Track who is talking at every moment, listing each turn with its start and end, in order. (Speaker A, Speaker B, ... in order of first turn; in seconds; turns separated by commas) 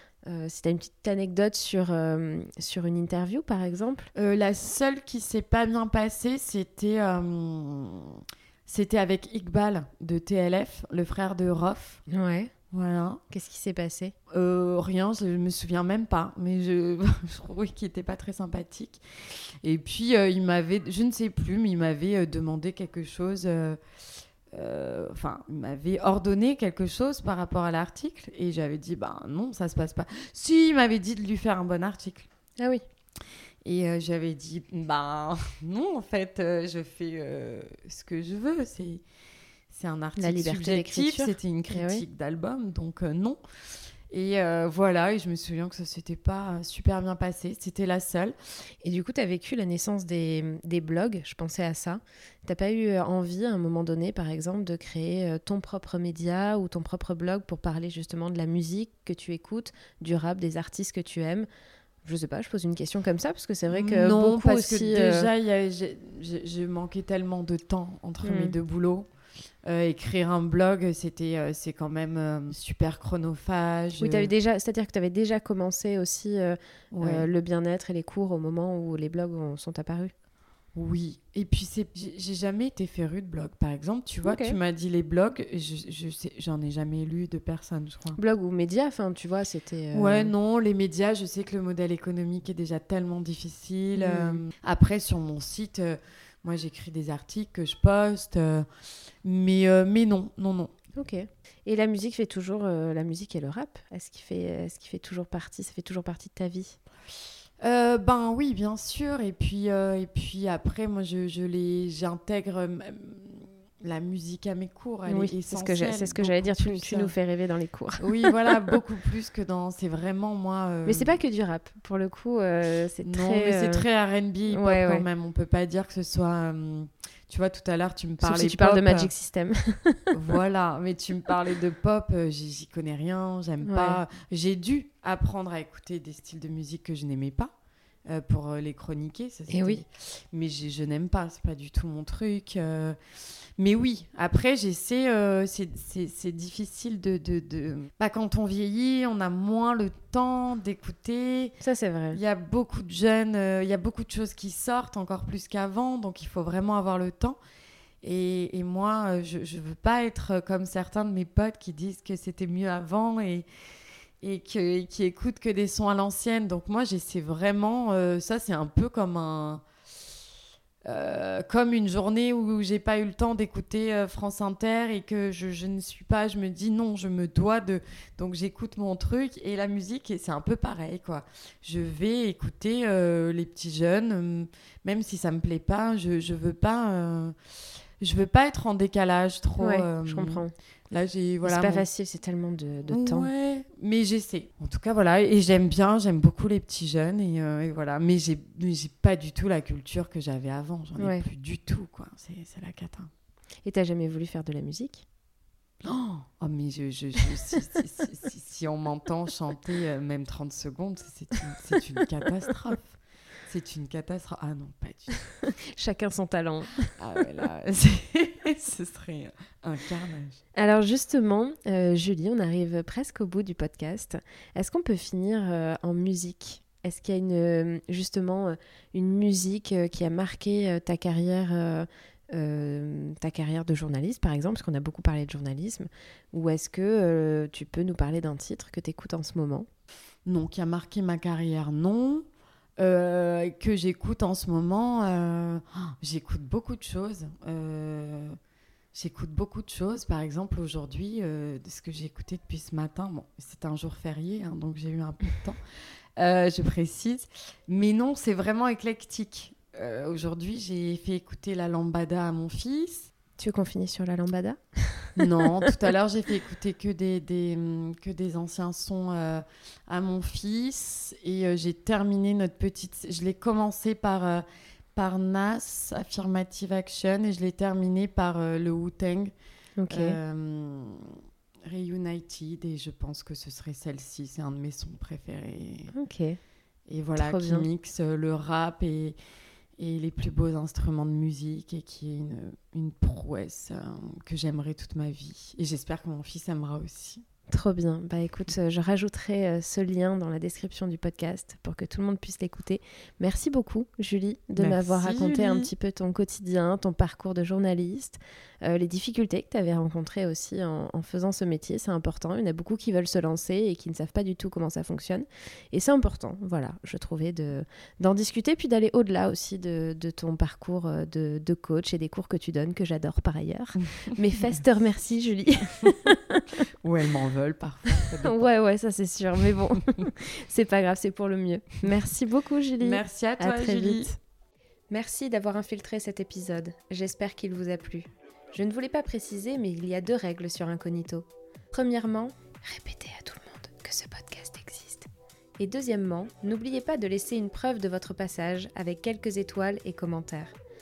Speaker A: 0.2-4.1, Speaker B: 4.1-12.0, Speaker A: 12.1-12.5, Speaker B: 12.7-13.2, Speaker A: 13.3-14.1, Speaker B: 14.3-23.8, Speaker B: 24.5-32.3, Speaker B: 33.6-39.0, Speaker B: 39.7-43.4, Speaker A: 40.2-42.0, Speaker B: 44.1-48.3, Speaker A: 48.8-61.5, Speaker A: 62.0-65.3, Speaker B: 63.7-69.1, Speaker A: 68.2-68.5, Speaker B: 69.6-74.3, Speaker A: 74.0-80.1, Speaker B: 76.9-77.3, Speaker B: 80.7-88.2, Speaker A: 84.2-84.6, Speaker A: 88.2-90.3, Speaker B: 89.9-98.7, Speaker A: 94.0-94.4, Speaker B: 99.2-100.7, Speaker A: 100.9-106.8, Speaker B: 107.6-117.1, Speaker A: 115.1-118.7, Speaker B: 118.0-121.2, Speaker A: 120.8-123.8, Speaker B: 123.0-129.1, Speaker A: 124.5-125.0, Speaker A: 128.2-130.1, Speaker B: 130.1-137.5, Speaker A: 133.6-134.0, Speaker B: 138.1-143.0, Speaker A: 139.5-139.8, Speaker B: 143.6-151.6, Speaker A: 151.6-152.2, Speaker B: 152.1-157.4, Speaker B: 158.0-163.4, Speaker B: 164.2-169.6, Speaker B: 170.8-187.3, Speaker B: 188.0-191.8, Speaker A: 189.6-190.5, Speaker A: 191.4-193.3, Speaker B: 192.9-203.1, Speaker A: 201.0-201.2, Speaker A: 203.6-205.1, Speaker B: 205.8-215.3, Speaker A: 215.4-217.0, Speaker B: 217.0-220.4, Speaker A: 220.5-239.7, Speaker B: 240.2-242.2, Speaker B: 242.8-248.4, Speaker B: 248.9-255.6, Speaker B: 256.2-263.1, Speaker A: 263.4-265.7, Speaker B: 265.1-274.4, Speaker B: 274.9-279.3, Speaker A: 279.8-280.2, Speaker B: 279.9-285.9, Speaker A: 285.9-286.4, Speaker B: 286.9-289.1, Speaker A: 287.2-287.7, Speaker B: 289.8-297.2, Speaker A: 297.5-326.6, Speaker B: 304.6-305.7, Speaker B: 326.8-328.4, Speaker A: 328.2-334.2, Speaker B: 329.4-330.1, Speaker B: 332.8-334.1, Speaker A: 334.9-345.1, Speaker A: 345.6-350.6